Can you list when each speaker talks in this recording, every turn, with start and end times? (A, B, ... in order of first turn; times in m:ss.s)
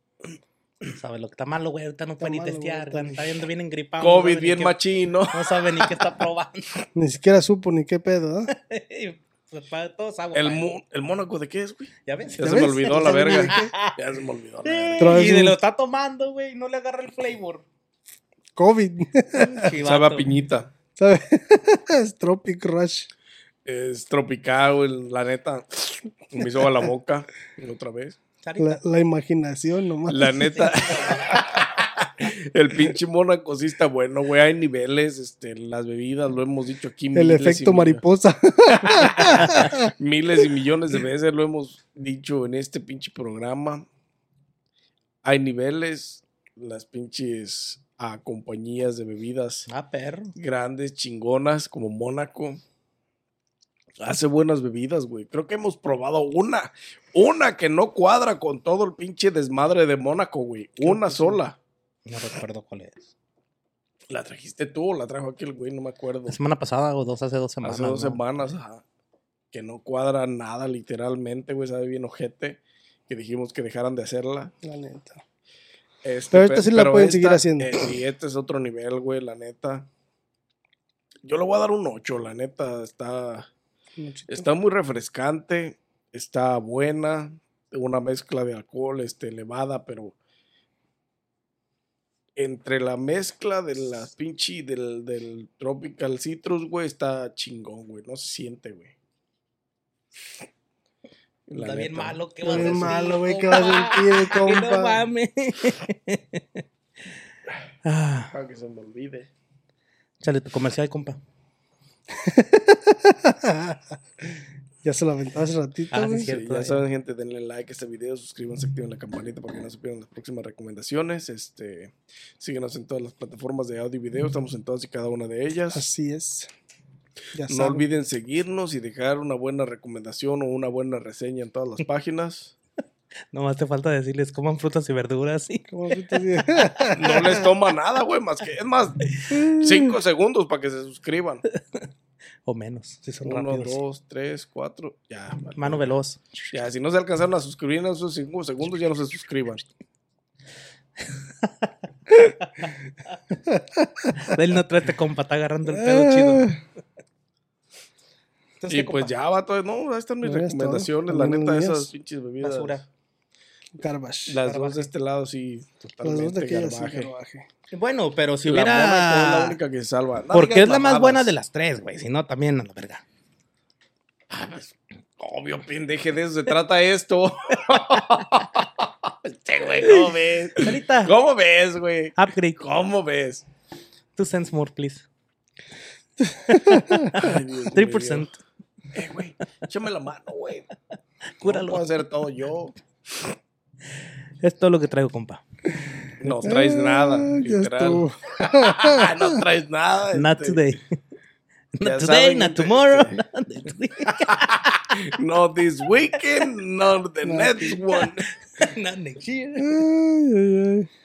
0:01.0-0:04.8 A
0:02.2-0:03.2 B
0:04.0-0:05.6 C
0:05.3-0:06.8 A
0:06.9-0:08.5 B
0:08.5-0:10.7 A
0:10.3-0:15.1 C
0:12.0-0:14.0 A
0:12.4-0:13.7 B
0:14.6-0:17.6 A
0:15.0-0:15.6 B
0:18.6-0:19.7 B
0:19.3-0:20.3 A
0:19.8-0:20.7 C
0:21.0-0:23.1 B
0:23.6-0:28.2 C
0:28.4-0:28.8 A
0:28.6-0:30.7 B
0:30.1-0:38.0 C
0:30.5-0:31.6 A
0:37.1-0:39.9 B
0:38.8-0:43.8 C
0:45.2-0:49.7 C
0:49.7-0:50.3 A
0:50.4-0:52.6 C
0:54.0-1:01.6 C
1:00.8-1:01.4 B
1:02.0-1:03.1 A
1:04.1-1:06.4 C
1:06.3-1:08.2 A
1:07.6-1:08.8 C
1:09.5-1:14.5 C
1:14.6-1:15.2 B
1:16.0-1:19.9 C
1:16.3-1:17.8 B
1:21.2-1:23.5 C
1:24.0-1:24.5 B
1:24.3-1:30.1 C
1:32.4-1:38.9 C
1:41.5-1:43.0 C
1:41.5-1:46.6 A
1:42.4-1:45.0 B
1:47.8-1:48.3 A
1:48.3-1:49.3 C
1:50.2-1:51.2 A
1:52.2-1:53.8 B
1:54.8-1:56.3 B
1:55.9-1:56.8 A
1:56.2-2:05.8 C
2:05.7-2:06.5 B
2:07.3-2:07.8 B
2:07.5-2:12.5 C
2:13.3-2:15.6 A
2:15.7-2:17.4 B
2:16.5-2:17.4 A
2:16.9-2:21.4 C
2:19.3-2:19.7 B
2:21.5-2:21.9 A
2:22.4-2:23.0 A
2:23.0-2:23.7 B
2:23.2-2:25.9 C
2:25.6-2:26.2 A
2:26.5-2:29.6 C
2:31.1-2:31.7 A
2:33.5-2:34.3 B
2:34.2-2:36.5 A
2:35.8-2:36.6 B
2:38.6-2:39.1 A
2:38.7-2:42.8 C
2:40.2-2:41.9 B
2:42.4-2:42.8 A
2:43.8-2:44.7 B
2:44.3-2:47.1 C
2:46.0-2:47.4 B
2:47.7-2:49.6 A
2:48.4-2:51.3 C
2:50.3-2:53.0 A
2:54.3-3:03.4 C
3:00.6-3:01.1 A
3:02.2-3:02.6 A
3:04.2-3:05.1 A
3:06.2-3:07.2 B
3:06.5-3:08.4 A
3:07.1-3:08.3 C
3:08.9-3:10.7 C
3:11.4-3:11.9 A
3:11.4-3:12.8 C
3:14.4-3:15.4 A
3:16.2-3:20.6 C
3:16.4-3:19.4 B
3:20.1-3:20.8 A
3:21.7-3:24.8 A
3:21.8-3:23.1 C
3:24.0-3:28.3 C
3:27.2-3:27.8 B
3:27.9-3:29.8 A
3:29.6-3:30.9 B